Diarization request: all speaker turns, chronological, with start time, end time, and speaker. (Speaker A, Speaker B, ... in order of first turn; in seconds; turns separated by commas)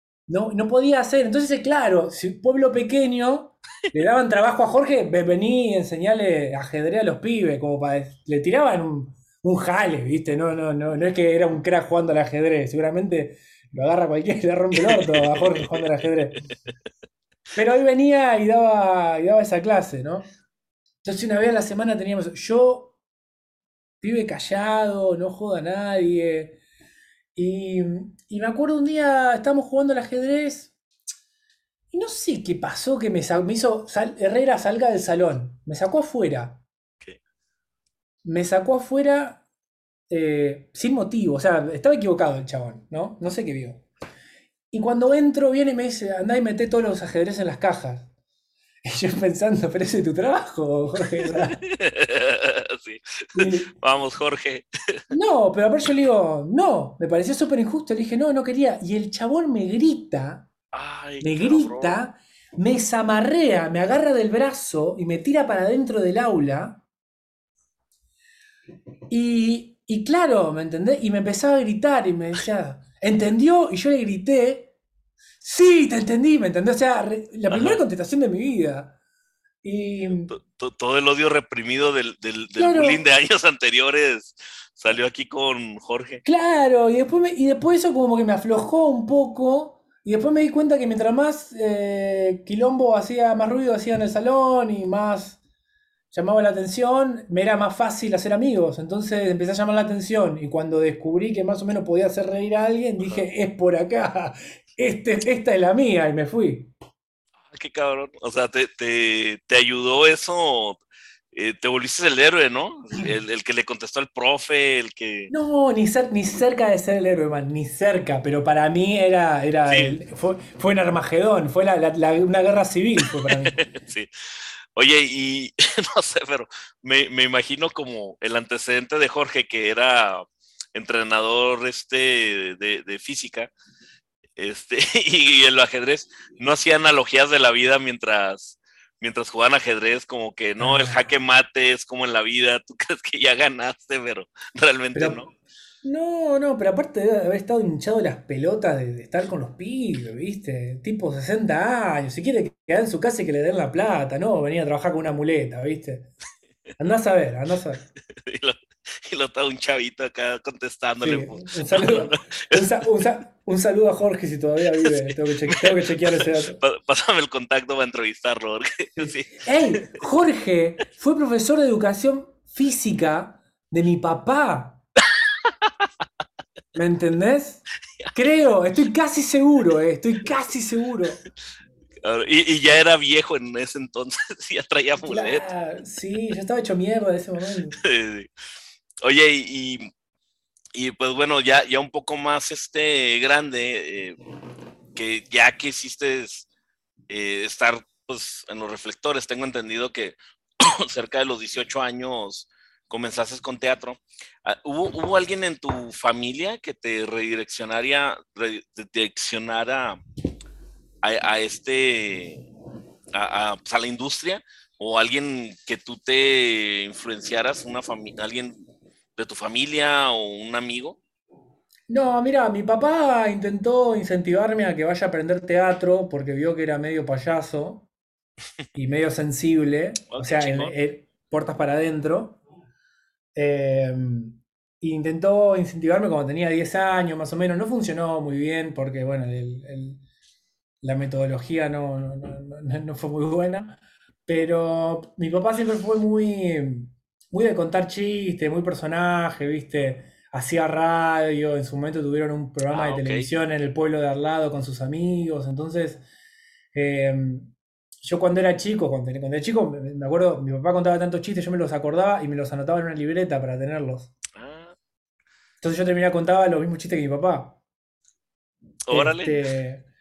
Speaker A: 0.3-16.4, Speaker B: 14.8-15.9, Speaker A: 17.5-20.2, Speaker A: 21.0-22.9, Speaker A: 24.0-26.6, Speaker A: 27.3-30.7, Speaker A: 31.9-36.6, Speaker A: 38.2-39.4, Speaker A: 40.1-43.9, Speaker A: 44.7-48.1, Speaker A: 48.8-51.6, Speaker B: 51.4-54.6, Speaker A: 53.3-53.7, Speaker A: 55.1-60.5, Speaker B: 60.7-62.0, Speaker A: 61.2-66.8, Speaker A: 69.1-74.7, Speaker A: 75.4-78.9, Speaker B: 77.5-77.8, Speaker A: 79.6-80.3, Speaker B: 80.3-86.2, Speaker A: 82.6-83.0, Speaker A: 86.2-95.4, Speaker A: 96.1-106.7, Speaker B: 107.5-110.8, Speaker B: 111.3-115.3, Speaker A: 115.3-123.7, Speaker B: 119.7-120.0, Speaker B: 123.2-124.1, Speaker B: 124.8-133.5, Speaker B: 134.4-145.3, Speaker A: 140.6-141.0, Speaker A: 144.9-145.2, Speaker A: 145.8-156.1, Speaker A: 156.8-157.8, Speaker B: 158.1-162.7, Speaker A: 161.0-166.6, Speaker B: 164.8-170.0, Speaker A: 169.0-174.8, Speaker B: 175.4-175.7, Speaker A: 176.7-181.2, Speaker B: 182.0-185.5, Speaker A: 185.1-187.8, Speaker B: 187.8-188.3, Speaker B: 189.0-189.9, Speaker B: 190.7-194.2, Speaker B: 194.9-196.5, Speaker B: 197.1-210.0, Speaker B: 211.0-212.5, Speaker B: 213.1-221.0, Speaker A: 221.9-227.9, Speaker A: 228.7-232.4, Speaker B: 230.1-230.7, Speaker A: 233.3-240.0, Speaker A: 240.8-256.0, Speaker B: 252.7-253.2, Speaker A: 256.7-264.1, Speaker B: 264.4-264.8, Speaker A: 265.6-267.6, Speaker B: 268.9-269.4, Speaker A: 268.9-269.9